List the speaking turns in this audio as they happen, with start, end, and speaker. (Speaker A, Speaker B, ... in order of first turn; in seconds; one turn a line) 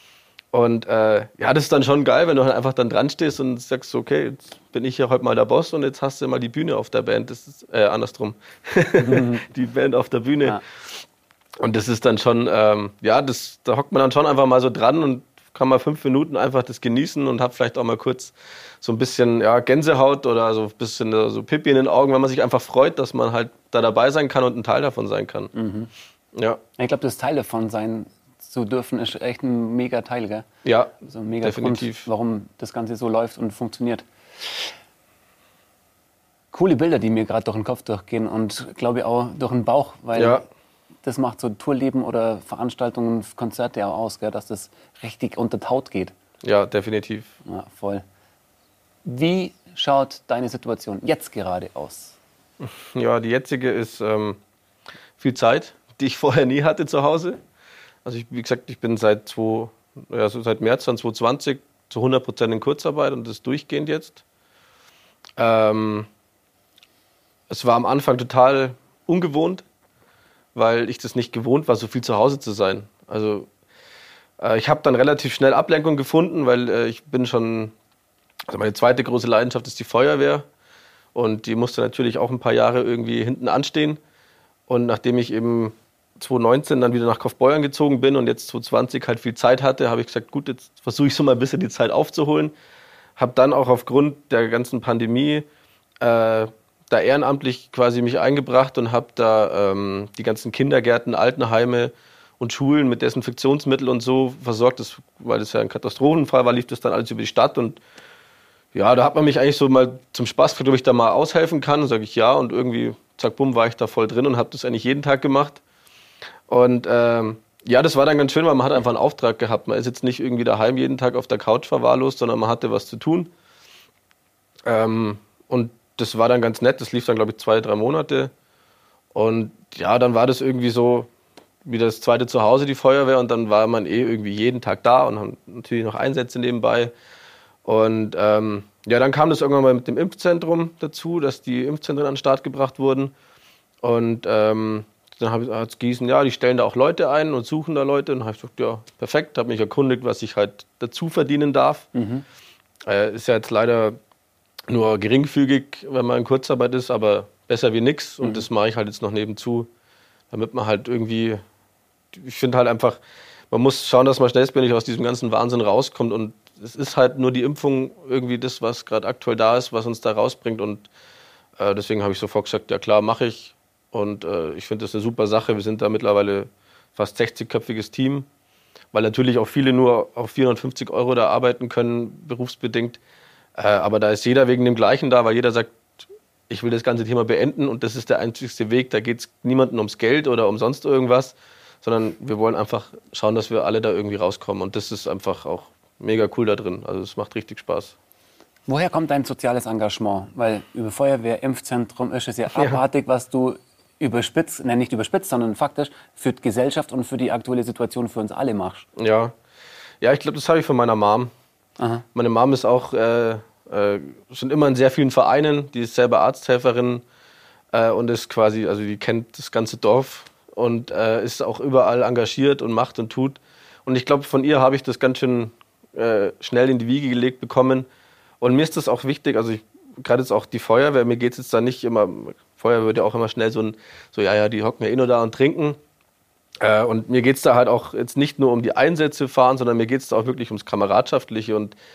Speaker A: 0.5-11.0
Speaker B: 9.0-9.4
Speaker A: 11.6-25.5
Speaker B: 25.5-25.9
Speaker A: 26.3-26.6
Speaker B: 26.8-30.5
Speaker A: 30.6-32.0
Speaker B: 31.0-34.7
Speaker B: 36.5-40.4
Speaker A: 40.1-40.4
Speaker B: 41.0-46.1
Speaker A: 46.4-47.3
Speaker B: 47.4-48.0
Speaker B: 49.0-52.1
Speaker A: 52.6-54.4
Speaker A: 55.2-57.4
Speaker A: 58.0-64.2
Speaker A: 65.4-66.1
Speaker A: 67.5-69.6
Speaker A: 70.5-73.5
Speaker A: 74.4-77.7
Speaker A: 78.5-80.5
Speaker A: 81.1-84.0
Speaker A: 84.7-92.5
Speaker A: 93.2-95.5
Speaker A: 96.0-107.8
Speaker A: 108.7-115.6
Speaker A: 116.5-123.3
Speaker A: 124.7-128.3
Speaker A: 129.1-131.1
Speaker A: 131.6-136.9
Speaker A: 137.6-143.1
Speaker A: 143.8-151.9
Speaker B: 151.9-152.2
Speaker A: 152.9-154.0
Speaker A: 154.7-159.7
Speaker A: 160.3-161.4
Speaker A: 162.1-163.0
Speaker A: 163.5-170.9
Speaker A: 171.6-178.3
Speaker A: 178.9-183.0
Speaker A: 183.5-197.9
Speaker B: 198.7-208.8
Speaker A: 209.0-209.3
Speaker A: 210.0-211.3
Speaker B: 211.8-212.0
Speaker A: 212.1-217.0
Speaker A: 217.7-227.9
Speaker A: 228.4-235.8
Speaker A: 236.6-241.8